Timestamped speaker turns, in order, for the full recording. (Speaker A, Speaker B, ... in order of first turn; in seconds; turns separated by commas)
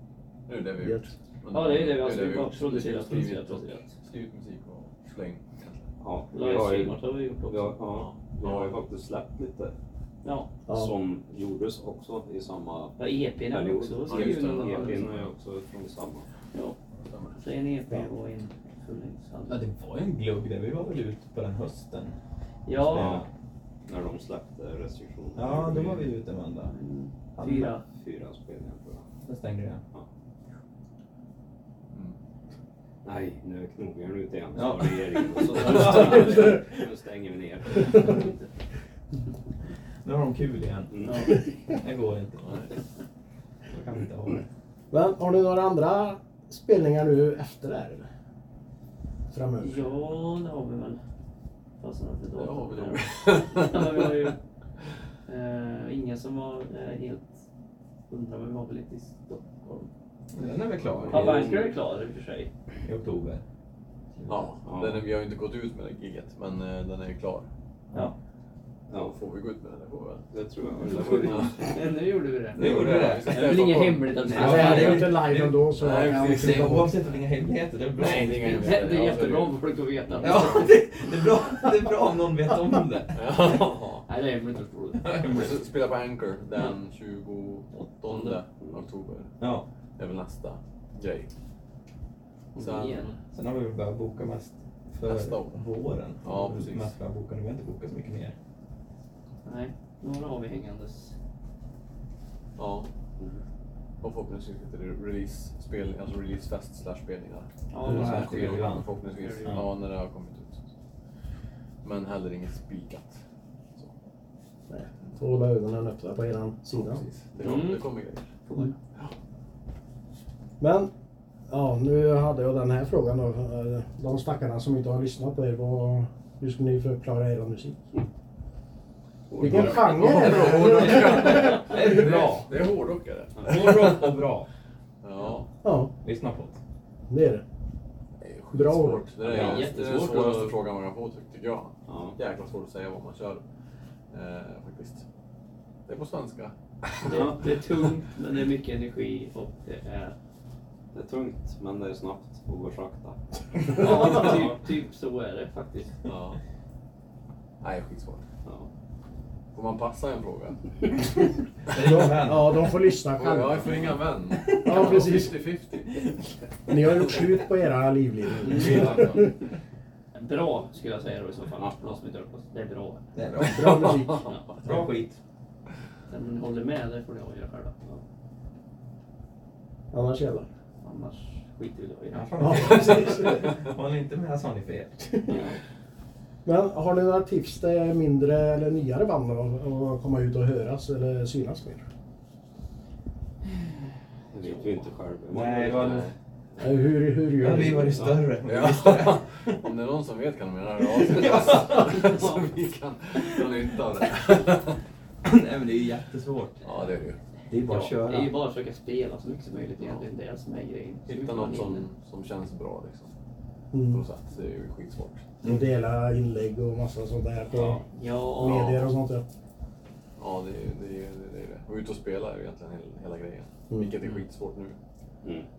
Speaker A: 0.5-5.9, Speaker B: 1.5-4.0, Speaker C: 6.0-9.7, Speaker B: 6.3-7.8, Speaker A: 7.9-8.8, Speaker B: 10.2-10.5, Speaker C: 10.7-16.3, Speaker B: 13.0-15.1, Speaker A: 14.1-15.3, Speaker A: 17.1-17.4, Speaker B: 17.4-19.6, Speaker D: 19.5-22.2, Speaker B: 22.7-23.2, Speaker D: 22.7-23.3, Speaker C: 22.9-23.3, Speaker C: 23.9-26.1, Speaker D: 25.4-26.8, Speaker B: 26.7-27.8, Speaker D: 27.4-27.8, Speaker C: 27.9-29.1, Speaker D: 29.2-29.8, Speaker A: 31.9-32.2, Speaker C: 33.0-38.3, Speaker D: 34.5-36.8, Speaker A: 35.6-36.2, Speaker B: 38.0-38.4, Speaker D: 40.0-42.6, Speaker C: 40.9-41.4, Speaker B: 41.0-41.4, Speaker A: 42.4-42.7, Speaker D: 43.7-44.5, Speaker E: 44.9-48.1, Speaker E: 49.3-49.8, Speaker B: 49.6-51.0, Speaker B: 51.8-54.4, Speaker A: 52.4-54.1, Speaker B: 55.3-57.3, Speaker B: 58.1-59.9, Speaker D: 60.3-61.5, Speaker A: 60.8-61.2, Speaker C: 61.1-61.7, Speaker B: 61.1-62.5, Speaker D: 62.8-63.4, Speaker A: 64.3-67.5, Speaker C: 64.7-65.0, Speaker C: 68.9-69.2, Speaker A: 69.0-70.2, Speaker C: 70.3-71.7, Speaker B: 70.9-75.2, Speaker A: 71.3-71.6, Speaker D: 72.5-73.6, Speaker A: 72.5-75.2, Speaker D: 74.3-78.9, Speaker E: 74.4-76.9, Speaker A: 75.7-77.0, Speaker A: 78.0-79.6, Speaker B: 78.5-80.7, Speaker D: 80.2-83.4, Speaker A: 83.1-84.0, Speaker B: 84.0-85.3, Speaker D: 85.0-85.5, Speaker A: 85.3-89.3, Speaker B: 87.7-88.4, Speaker D: 89.4-89.7, Speaker A: 90.0-91.3, Speaker B: 92.5-93.2, Speaker A: 92.6-93.1, Speaker D: 93.3-98.4, Speaker A: 95.0-95.7, Speaker A: 96.2-96.9, Speaker B: 99.5-101.2, Speaker A: 102.6-102.9, Speaker A: 104.0-110.7, Speaker B: 107.7-109.6, Speaker D: 107.8-108.9, Speaker D: 109.4-109.7, Speaker A: 111.8-113.2, Speaker E: 114.7-117.0, Speaker A: 116.7-118.3, Speaker B: 117.4-117.9, Speaker B: 118.4-118.8, Speaker E: 120.6-120.9, Speaker E: 121.5-127.9, Speaker C: 129.3-129.7, Speaker E: 129.4-131.7, Speaker D: 129.4-132.5, Speaker A: 129.4-134.2, Speaker D: 133.4-134.5, Speaker A: 135.0-135.5, Speaker E: 135.6-135.9, Speaker D: 136.0-136.6, Speaker E: 137.1-137.4, Speaker A: 138.2-143.4, Speaker E: 138.5-139.1, Speaker B: 139.2-140.6, Speaker D: 139.3-139.7, Speaker C: 141.9-142.2, Speaker A: 144.1-145.0, Speaker A: 145.9-146.5, Speaker B: 147.0-150.2, Speaker C: 147.1-147.4, Speaker C: 150.9-153.2, Speaker B: 153.7-156.0, Speaker C: 153.8-154.5, Speaker A: 156.1-156.4, Speaker A: 157.6-158.2, Speaker A: 159.5-160.7, Speaker D: 161.7-162.6, Speaker E: 161.8-163.8, Speaker A: 163.2-166.1, Speaker D: 164.5-164.9, Speaker E: 164.6-165.3, Speaker E: 166.7-169.3, Speaker A: 168.5-169.3, Speaker B: 168.5-168.9, Speaker B: 170.2-173.1, Speaker C: 171.6-171.9, Speaker D: 173.2-174.1, Speaker E: 173.4-174.3, Speaker A: 173.6-174.8, Speaker D: 174.6-175.2, Speaker B: 176.1-178.0, Speaker E: 179.9-180.5, Speaker B: 180.8-182.8, Speaker D: 182.1-185.3, Speaker E: 182.4-183.6, Speaker B: 185.3-185.6, Speaker E: 186.4-191.9, Speaker C: 194.3-196.1, Speaker D: 195.3-196.1, Speaker E: 196.6-198.1, Speaker D: 197.4-199.6, Speaker C: 197.8-198.2, Speaker A: 198.4-204.8, Speaker D: 201.0-202.2, Speaker D: 203.2-203.5, Speaker D: 205.2-206.6, Speaker A: 206.6-207.2, Speaker D: 207.5-208.3, Speaker B: 207.7-211.9, Speaker A: 211.1-213.1, Speaker E: 213.7-214.0, Speaker A: 213.9-215.3, Speaker E: 215.4-217.8, Speaker B: 217.5-218.9, Speaker E: 218.4-219.2, Speaker A: 220.2-224.8